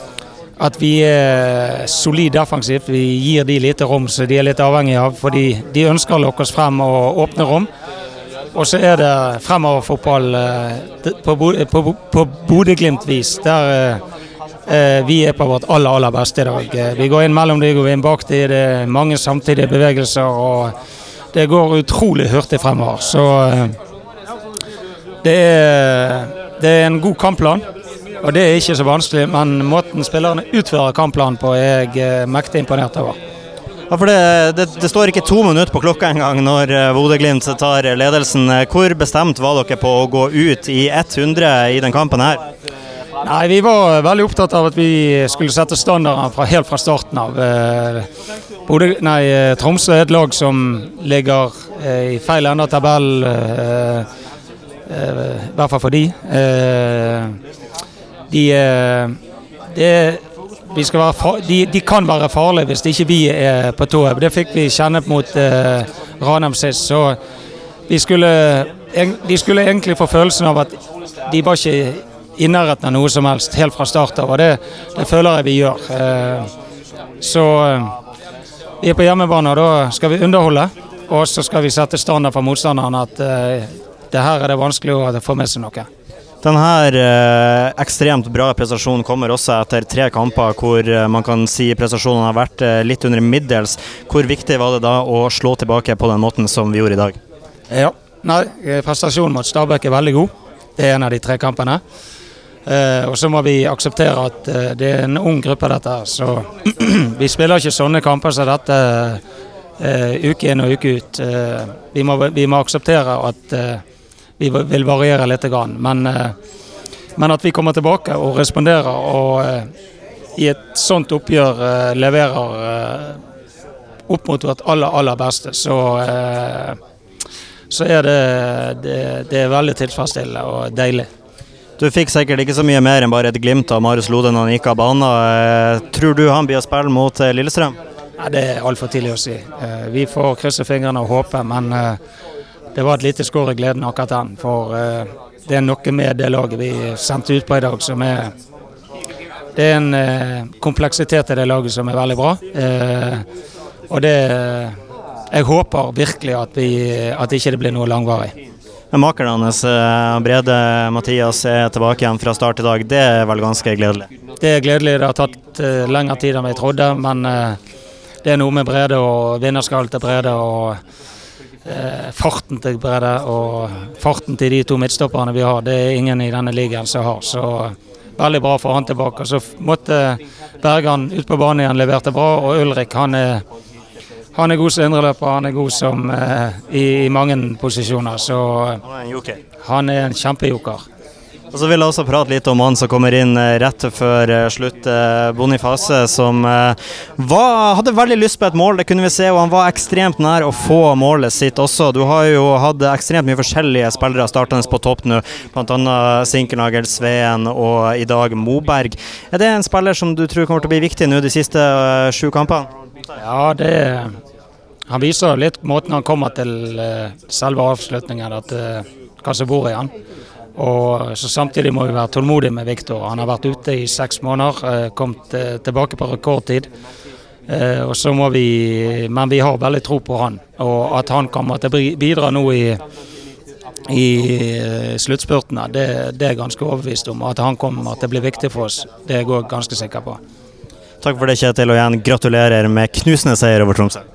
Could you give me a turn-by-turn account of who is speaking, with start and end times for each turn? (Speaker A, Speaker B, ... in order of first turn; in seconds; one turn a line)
Speaker A: 0.6-7.7
Speaker A: 8.5-14.0
Speaker A: 14.7-20.7
Speaker A: 21.3-23.8
Speaker A: 25.2-27.6
Speaker A: 28.2-33.2
Speaker B: 33.9-42.4
Speaker A: 43.2-48.1
Speaker A: 48.7-54.1
Speaker A: 54.9-57.4
Speaker A: 58.3-59.2
Speaker A: 59.7-60.2
Speaker A: 60.7-67.2
Speaker A: 67.9-70.8
Speaker A: 71.3-76.5
Speaker A: 77.2-77.9
Speaker A: 78.8-85.9
Speaker B: 86.4-97.2
Speaker A: 97.7-101.8
Speaker A: 102.7-109.2
Speaker A: 109.8-113.8
Speaker A: 114.4-116.3
Speaker A: 117.2-119.7
Speaker A: 120.4-123.2
Speaker A: 124.1-126.8
Speaker A: 127.7-131.1
Speaker B: 131.8-137.8
Speaker A: 138.2-142.0
Speaker A: 142.7-148.3
Speaker A: 149.6-153.2
Speaker A: 153.9-154.8
Speaker A: 155.3-158.3
Speaker B: 158.9-164.1
Speaker A: 164.4-167.6
Speaker A: 168.2-170.8
Speaker A: 171.7-183.4
Speaker A: 184.3-188.8
Speaker B: 188.9-189.4
Speaker A: 189.6-190.8
Speaker B: 191.5-212.7
Speaker A: 213.2-214.1
Speaker A: 214.9-219.9
Speaker A: 220.6-226.7
Speaker A: 227.5-232.8
Speaker A: 233.9-240.2
Speaker B: 241.0-244.0